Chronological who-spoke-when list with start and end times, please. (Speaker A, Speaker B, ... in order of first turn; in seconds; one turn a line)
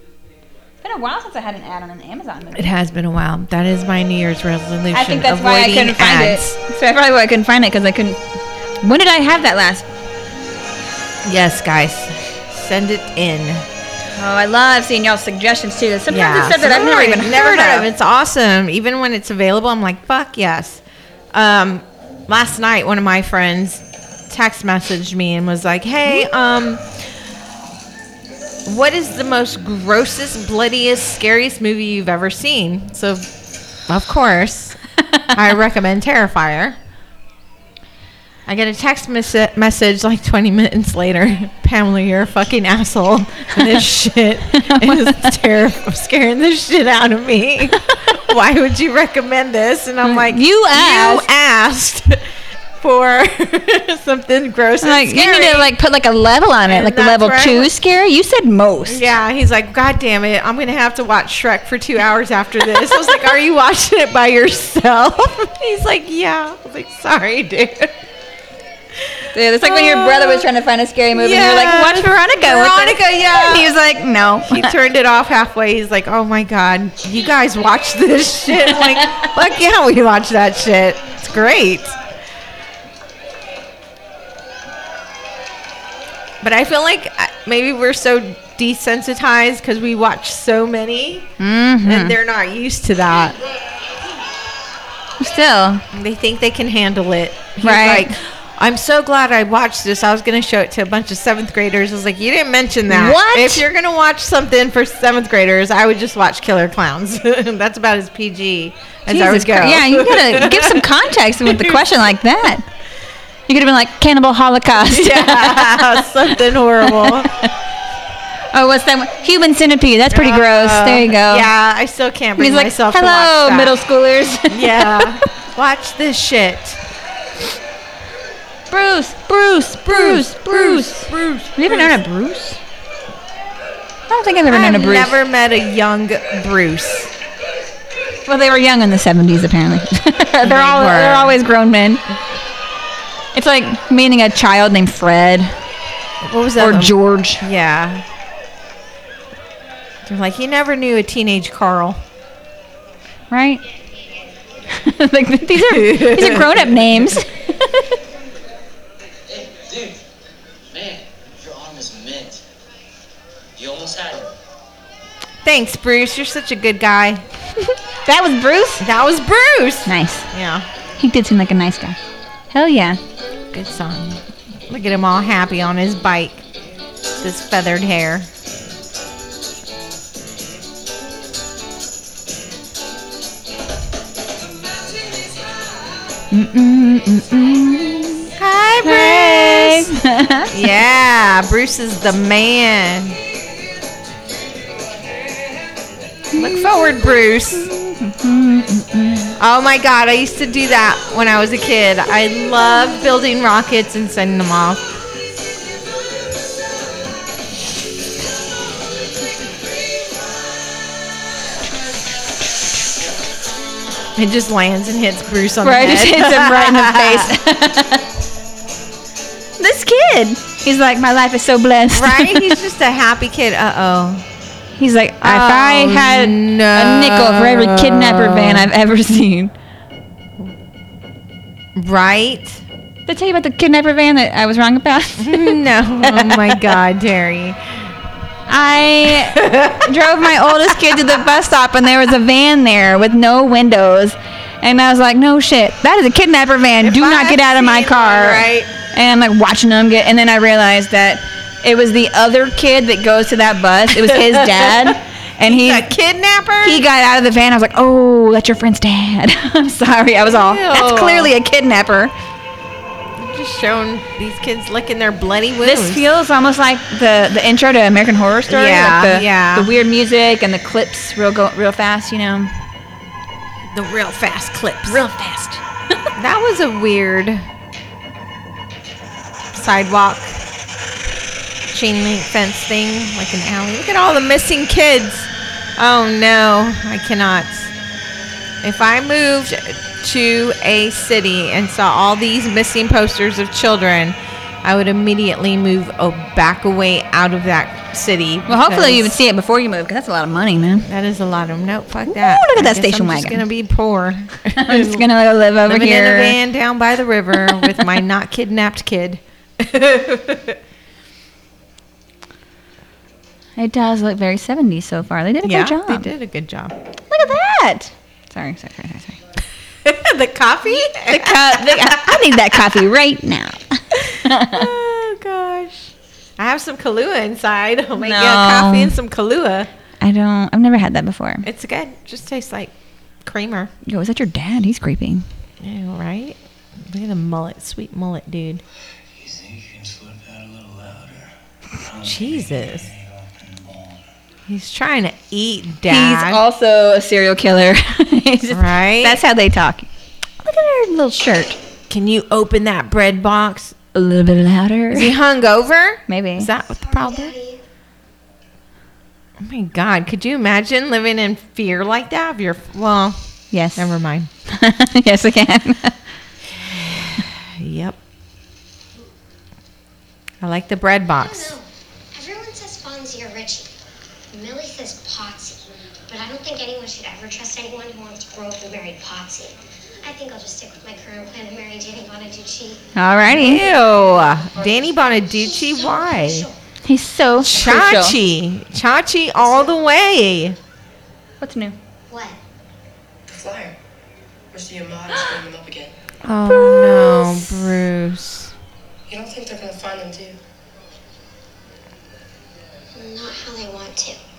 Speaker A: 0.8-2.7
Speaker B: 2.5-6.6
Speaker A: 4.9-8.2
Speaker A: 8.8-9.8
Speaker B: 11.2-13.6
Speaker A: 14.2-17.9
Speaker B: 16.1-26.9
Speaker B: 28.6-33.3
Speaker B: 33.9-34.8
Speaker B: 35.3-36.8
Speaker B: 38.5-52.2
Speaker A: 44.5-45.4
Speaker A: 50.0-51.2
Speaker B: 52.8-55.7
Speaker A: 54.8-59.0
Speaker B: 56.7-57.7
Speaker B: 58.9-68.0
Speaker B: 69.0-70.5
Speaker A: 69.3-74.7
Speaker B: 71.1-73.7
Speaker B: 74.4-82.0
Speaker B: 86.4-91.3
Speaker A: 91.4-92.2
Speaker B: 91.8-93.4
Speaker A: 95.2-95.8
Speaker B: 95.9-110.9
Speaker A: 97.6-98.1
Speaker A: 102.9-103.6
Speaker A: 109.1-112.6
Speaker B: 111.4-111.8
Speaker A: 113.5-116.2
Speaker B: 114.7-117.3
Speaker A: 116.8-117.5
Speaker A: 118.5-121.5
Speaker B: 120.1-123.8
Speaker A: 122.4-125.2
Speaker B: 124.5-126.8
Speaker A: 128.7-132.6
Speaker B: 129.8-132.0
Speaker A: 134.1-135.1
Speaker B: 134.5-137.1
Speaker A: 138.2-142.0
Speaker B: 140.4-141.4
Speaker A: 143.3-145.5
Speaker B: 146.2-148.0
Speaker A: 146.6-147.4
Speaker B: 150.0-152.0
Speaker A: 153.3-153.6
Speaker A: 154.7-157.9
Speaker B: 155.6-157.0
Speaker C: 159.3-159.9
Speaker C: 160.7-162.4
Speaker C: 163.6-164.3
Speaker B: 165.4-167.2
Speaker A: 168.0-168.8
Speaker B: 168.8-170.7
Speaker A: 169.8-170.2
Speaker A: 171.0-172.0
Speaker A: 172.5-173.0
Speaker B: 173.5-176.4
Speaker B: 177.2-178.3
Speaker A: 186.3-188.3
Speaker B: 188.4-189.9
Speaker A: 188.8-190.6
Speaker B: 190.5-193.2
Speaker A: 196.3-196.9
Speaker B: 196.3-197.7
Speaker A: 197.5-199.3
Speaker B: 199.4-204.8
Speaker B: 214.2-217.3
Speaker A: 215.6-218.1
Speaker A: 219.6-222.6
Speaker B: 221.9-224.2
Speaker A: 224.8-229.5
Speaker B: 225.2-228.7
Speaker B: 231.8-232.6
Speaker A: 233.1-236.6
Speaker B: 235.2-237.6
Speaker A: 238.5-255.8
Speaker B: 239.1-239.9
Speaker B: 240.5-241.2
Speaker B: 246.8-248.7
Speaker B: 253.9-256.8
Speaker A: 256.6-262.1
Speaker B: 260.3-261.3
Speaker B: 263.2-266.0
Speaker A: 265.6-272.5
Speaker B: 268.5-269.7
Speaker B: 273.7-275.0
Speaker A: 274.9-275.6
Speaker B: 276.2-277.4
Speaker B: 279.5-280.4
Speaker B: 281.7-287.7
Speaker B: 288.6-299.1
Speaker A: 298.5-300.9
Speaker B: 300.9-305.1
Speaker A: 302.1-303.4
Speaker A: 304.5-306.4
Speaker B: 305.6-310.6
Speaker A: 313.6-316.1
Speaker B: 315.4-316.8
Speaker A: 317.1-319.2
Speaker B: 319.8-322.6
Speaker A: 320.6-324.7
Speaker B: 324.0-329.7
Speaker A: 328.0-328.9
Speaker A: 330.0-331.4
Speaker B: 331.4-332.7
Speaker B: 333.2-333.7
Speaker A: 333.9-335.2
Speaker B: 335.6-338.6
Speaker D: 339.1-344.0
Speaker B: 342.0-342.9
Speaker B: 344.5-346.4
Speaker A: 345.9-349.9
Speaker B: 348.5-349.2
Speaker A: 350.4-351.6
Speaker B: 351.9-353.7
Speaker A: 353.9-355.1
Speaker B: 354.9-357.3
Speaker A: 356.1-356.5
Speaker E: 356.8-357.6
Speaker B: 359.4-363.2
Speaker A: 363.5-363.9
Speaker B: 363.8-364.3
Speaker A: 364.5-366.0
Speaker B: 366.8-368.0
Speaker B: 370.4-371.5
Speaker E: 371.1-373.7
Speaker E: 374.3-382.9
Speaker A: 382.9-383.6
Speaker B: 383.3-386.5
Speaker F: 384.5-384.9
Speaker E: 385.2-386.6
Speaker A: 386.8-388.1
Speaker B: 387.3-390.6
Speaker A: 391.4-391.8
Speaker E: 392.1-392.4
Speaker F: 393.3-393.8
Speaker F: 394.5-395.9
Speaker B: 396.2-398.5
Speaker A: 396.4-397.5
Speaker F: 399.1-400.4
Speaker E: 402.9-404.2